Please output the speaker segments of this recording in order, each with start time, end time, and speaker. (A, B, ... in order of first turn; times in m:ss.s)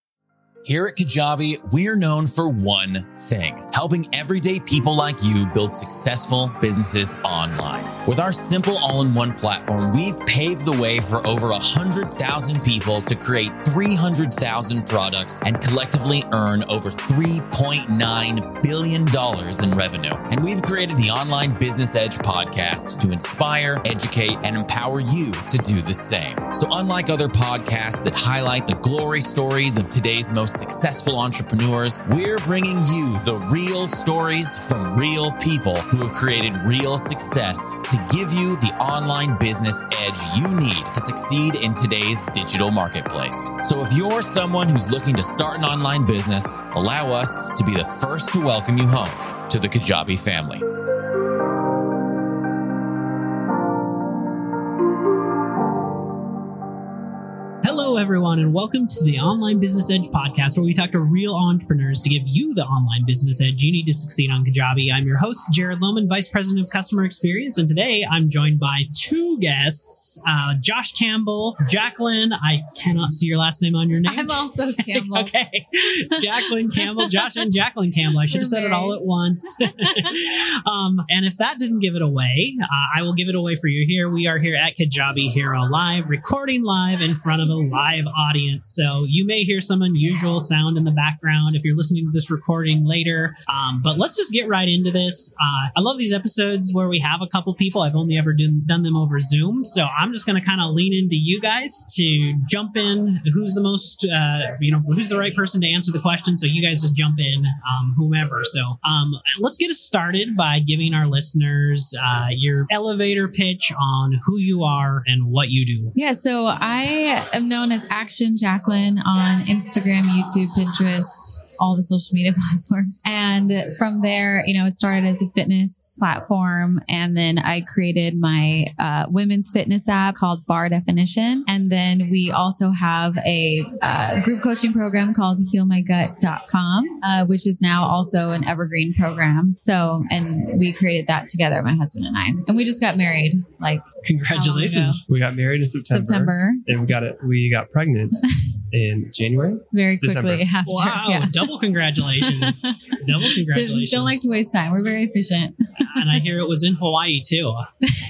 0:00.6-0:50.6 A
0:57.6-1:55.9 B
1:14.0-1:15.3 C
1:16.2-1:17.1 C
1:18.3-1:19.0 C
1:56.0-2:25.0 C
2:24.0-2:25.0 B
2:25.1-2:30.5 D
2:25.9-2:26.6 C
2:29.7-2:31.5 C
2:30.7-2:34.2 B
2:32.2-2:36.2 C
2:35.8-2:37.7 B